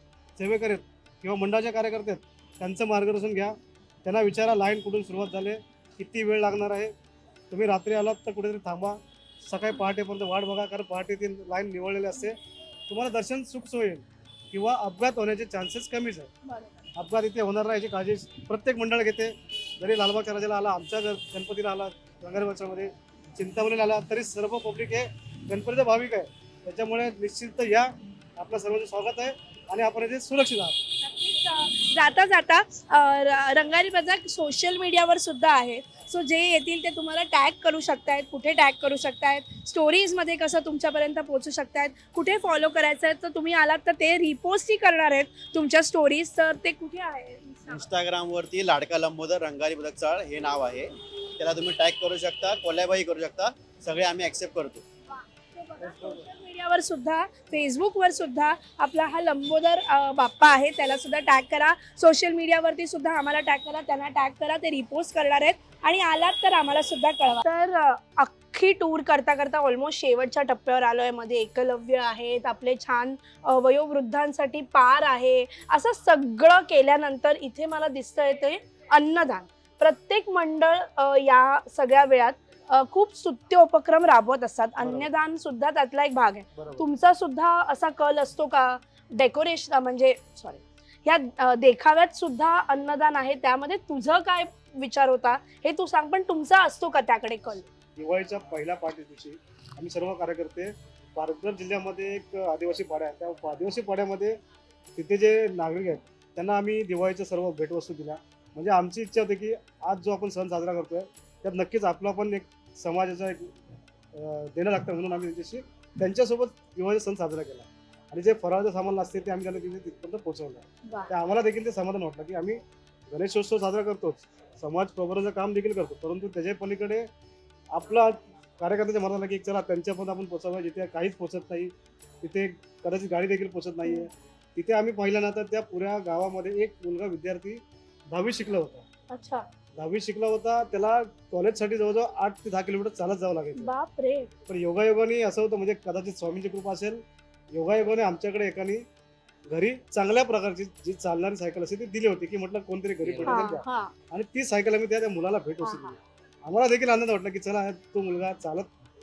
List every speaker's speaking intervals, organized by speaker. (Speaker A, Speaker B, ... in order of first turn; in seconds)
Speaker A: 0.4-6.9, 7.5-12.4, 12.9-16.3, 17.0-30.8, 55.8-56.2, 84.8-85.1, 86.6-86.8, 98.0-104.4, 105.0-113.5, 114.1-127.1, 127.7-138.8, 139.8-143.7, 144.5-148.9, 149.5-158.7
Speaker B: 16.4-16.7, 31.0-47.8, 55.5-97.6, 139.1-139.5, 143.6-144.3, 153.2-153.9, 155.6-155.9
Speaker C: 47.7-54.8